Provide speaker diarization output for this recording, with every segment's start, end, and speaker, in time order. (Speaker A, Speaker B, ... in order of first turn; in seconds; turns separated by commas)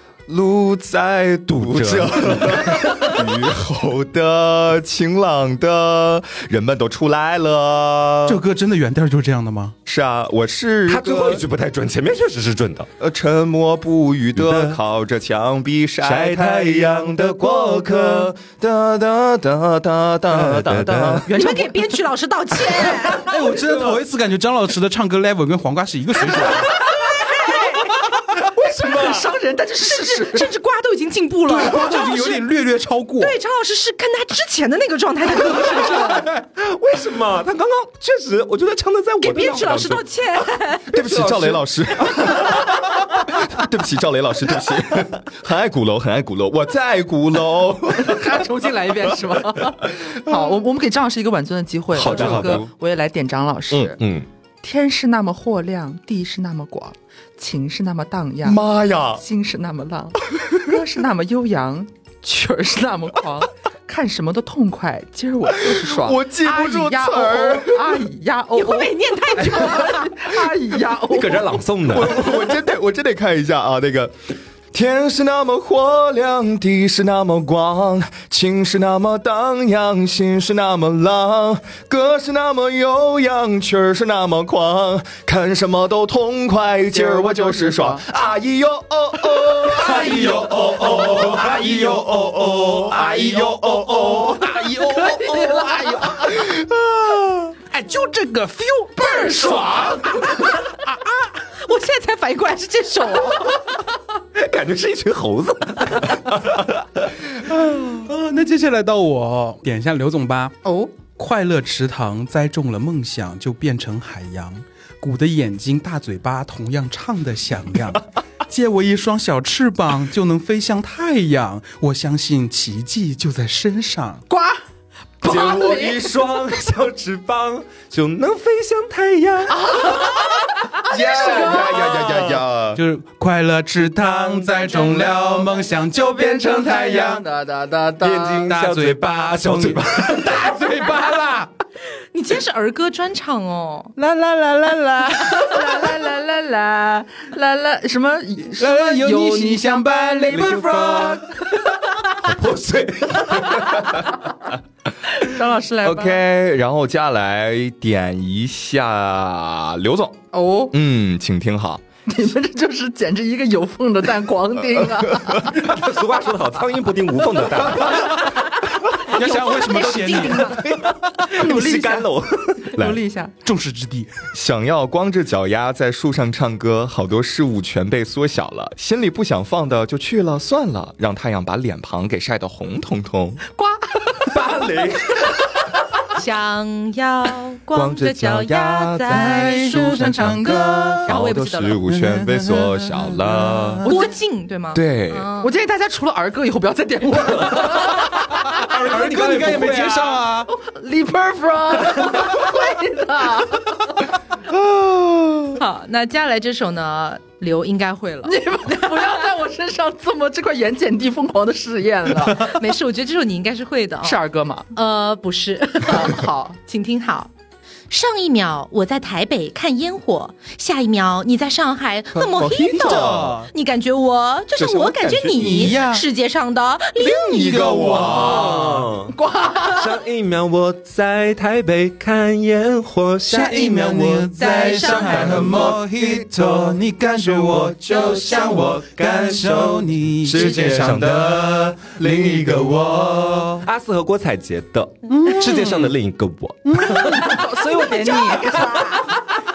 Speaker A: 0.3-8.4, Speaker B: 1.6-3.2, Speaker C: 8.2-9.7, Speaker A: 9.8-11.4, Speaker B: 10.9-12.9, Speaker A: 13.0-21.3, Speaker B: 14.3-14.8, Speaker B: 16.0-18.3, Speaker B: 20.3-21.3, Speaker D: 21.3-23.5, Speaker E: 21.3-22.0, Speaker C: 23.2-26.8, Speaker E: 26.4-27.7, Speaker D: 26.8-28.0, Speaker B: 28.4-29.3, Speaker E: 28.4-30.5, Speaker D: 29.8-32.4, Speaker C: 31.4-33.4, Speaker D: 33.2-36.3, Speaker B: 36.0-40.0, Speaker D: 39.2-40.9, Speaker B: 40.9-41.6, Speaker A: 40.9-48.4, Speaker E: 48.0-54.0, Speaker A: 50.0-50.4, Speaker B: 51.9-52.6, Speaker A: 51.9-52.7, Speaker B: 54.0-54.3, Speaker E: 54.6-58.6, Speaker A: 58.4-59.2, Speaker E: 59.2-71.6, Speaker A: 65.6-68.0, Speaker D: 68.5-70.1, Speaker B: 71.1-72.3, Speaker A: 71.9-74.1, Speaker A: 74.7-95.0, Speaker E: 86.9-88.0, Speaker C: 89.8-92.0, Speaker E: 89.8-90.9, Speaker B: 90.1-90.4, Speaker B: 91.0-91.4, Speaker C: 93.2-96.0, Speaker E: 95.0-96.2, Speaker A: 96.1-97.5, Speaker C: 97.7-100.0, Speaker E: 99.0-100.1, Speaker D: 101.5-103.8, Speaker B: 104.3-107.7, Speaker C: 108.0-124.2, Speaker E: 110.6-110.9, Speaker E: 124.3-124.6, Speaker E: 125.2-126.0, Speaker B: 125.2-130.0, Speaker E: 129.5-132.2, Speaker A: 130.9-132.8, Speaker C: 132.7-137.2, Speaker E: 135.9-138.6, Speaker B: 138.0-140.4, Speaker C: 138.4-141.5, Speaker D: 142.1-143.9, Speaker C: 144.0-145.9, Speaker E: 145.2-151.7, Speaker C: 148.5-151.3, Speaker B: 152.2-154.0, Speaker E: 155.2-156.2, Speaker A: 155.8-160.2, Speaker E: 160.3-160.8, Speaker A: 160.7-161.8, Speaker E: 162.1-165.6, Speaker A: 164.8-165.3, Speaker B: 165.4-168.2, Speaker D: 169.1-170.7, Speaker C: 169.1-170.5, Speaker B: 170.4-172.8, Speaker E: 171.3-172.1, Speaker E: 172.6-173.3, Speaker C: 173.4-174.1, Speaker A: 174.3-183.4, Speaker E: 183.5-184.4, Speaker B: 184.3-185.5, Speaker D: 186.1-189.6, Speaker A: 187.7-193.9, Speaker C: 189.1-191.1, Speaker D: 191.0-191.8, Speaker C: 191.9-193.9, Speaker D: 193.8-195.5, Speaker A: 194.7-195.3, Speaker E: 195.4-198.8, Speaker B: 198.6-200.2, Speaker C: 198.6-200.5, Speaker E: 200.5-204.1, Speaker A: 204.5-205.6, Speaker D: 205.6-208.4, Speaker E: 208.2-212.5, Speaker D: 212.3-214.2, Speaker E: 214.0-214.7, Speaker D: 214.7-217.3, Speaker E: 215.8-216.6, Speaker D: 217.9-228.3, Speaker A: 222.1-223.3, Speaker C: 222.4-223.5, Speaker A: 224.6-225.8, Speaker C: 225.4-226.0, Speaker A: 227.0-228.8, Speaker C: 227.3-228.9, Speaker B: 228.4-229.1, Speaker E: 229.1-229.9, Speaker B: 229.7-234.3, Speaker C: 233.3-241.7, Speaker D: 234.4-235.6, Speaker A: 234.9-236.5, Speaker A: 237.5-239.6, Speaker B: 237.9-239.7, Speaker A: 240.2-243.6, Speaker B: 240.4-241.6, Speaker C: 243.1-243.6, Speaker B: 243.6-247.3, Speaker C: 245.1-245.9, Speaker C: 246.7-247.4, Speaker E: 246.8-249.0, Speaker D: 247.8-249.0